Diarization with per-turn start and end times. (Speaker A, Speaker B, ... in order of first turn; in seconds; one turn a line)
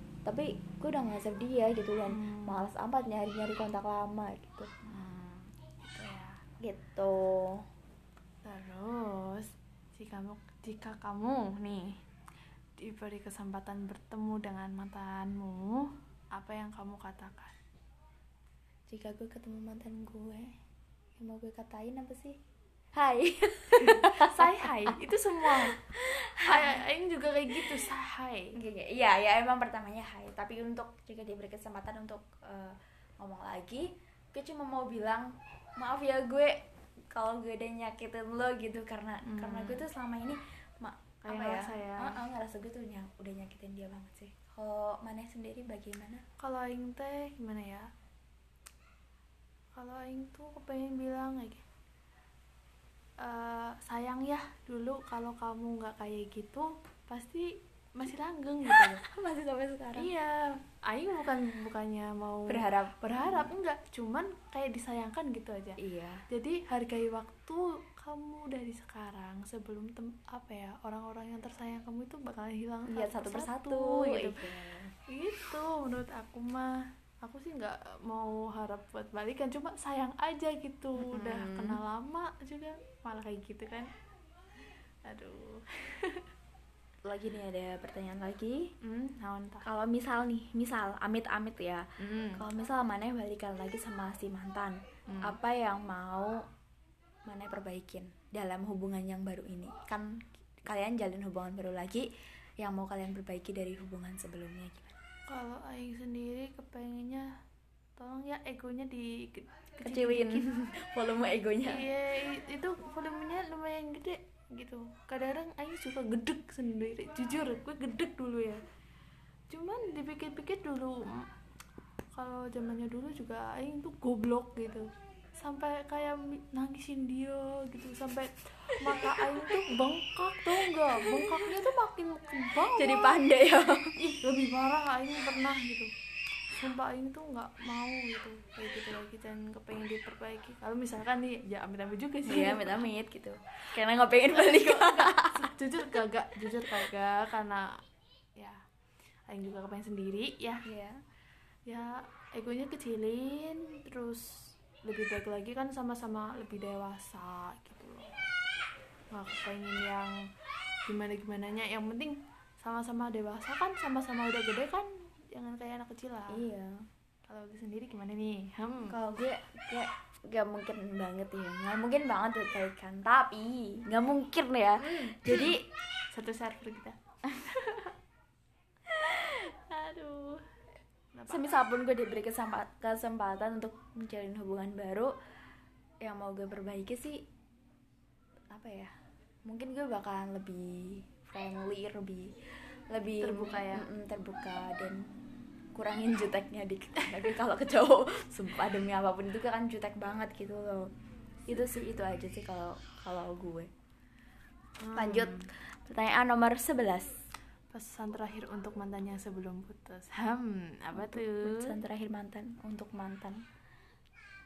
Speaker A: 0.2-4.7
Speaker B: 2.1-2.6
Speaker B: 4.8-6.4
Speaker A: 6.6-7.7
Speaker B: 8.4-11.9
Speaker B: 12.8-17.5
Speaker A: 18.9-20.5
Speaker A: 21.2-22.4
Speaker A: 22.9-24.9
Speaker B: 23.8-25.8
Speaker A: 25.7-26.8
Speaker B: 26.4-28.6
Speaker A: 28.6-36.6
Speaker A: 37.1-46.2
Speaker B: 39.2-39.8
Speaker B: 41.3-42.2
Speaker B: 46.4-47.9
Speaker B: 49.8-51.6
Speaker B: 53.2-59.1
Speaker A: 59.0-60.1
Speaker B: 60.0-65.8
Speaker A: 62.5-63.4
Speaker A: 65.8-66.2
Speaker B: 66.3-83.9
Speaker A: 72.9-74.9
Speaker A: 81.0-81.8
Speaker B: 85.1-86.3
Speaker A: 87.0-88.7
Speaker B: 88.8-89.7
Speaker A: 89.6-96.4
Speaker B: 92.0-92.5
Speaker B: 95.1-95.3
Speaker A: 97.3-100.1
Speaker A: 100.6-102.1
Speaker A: 102.6-105.0
Speaker B: 105.3-107.3
Speaker B: 108.0-110.5
Speaker A: 109.8-111.9
Speaker B: 111.6-118.6
Speaker B: 119.5-121.3
Speaker B: 122.1-124.9
Speaker B: 125.4-133.2
Speaker A: 131.1-131.4
Speaker A: 132.6-134.0
Speaker B: 134.0-135.9
Speaker B: 136.6-142.8
Speaker A: 142.2-145.5
Speaker B: 144.3-147.8
Speaker B: 149.3-150.6
Speaker A: 150.7-151.0
Speaker B: 151.7-158.1
Speaker B: 159.1-160.2
Speaker B: 160.9-166.4
Speaker A: 166.3-166.8
Speaker B: 167.3-169.0
Speaker A: 168.9-175.6
Speaker B: 174.9-175.5
Speaker B: 176.1-177.9
Speaker B: 178.9-180.4
Speaker B: 181.1-181.5
Speaker A: 181.3-185.1
Speaker A: 186.0-187.2
Speaker A: 188.5-188.9
Speaker A: 189.5-192.3
Speaker A: 192.9-195.0
Speaker B: 193.2-193.9
Speaker A: 195.8-200.9
Speaker A: 201.5-203.7
Speaker B: 204.8-205.5
Speaker A: 204.9-207.1
Speaker B: 207.7-211.8
Speaker A: 210.9-213.4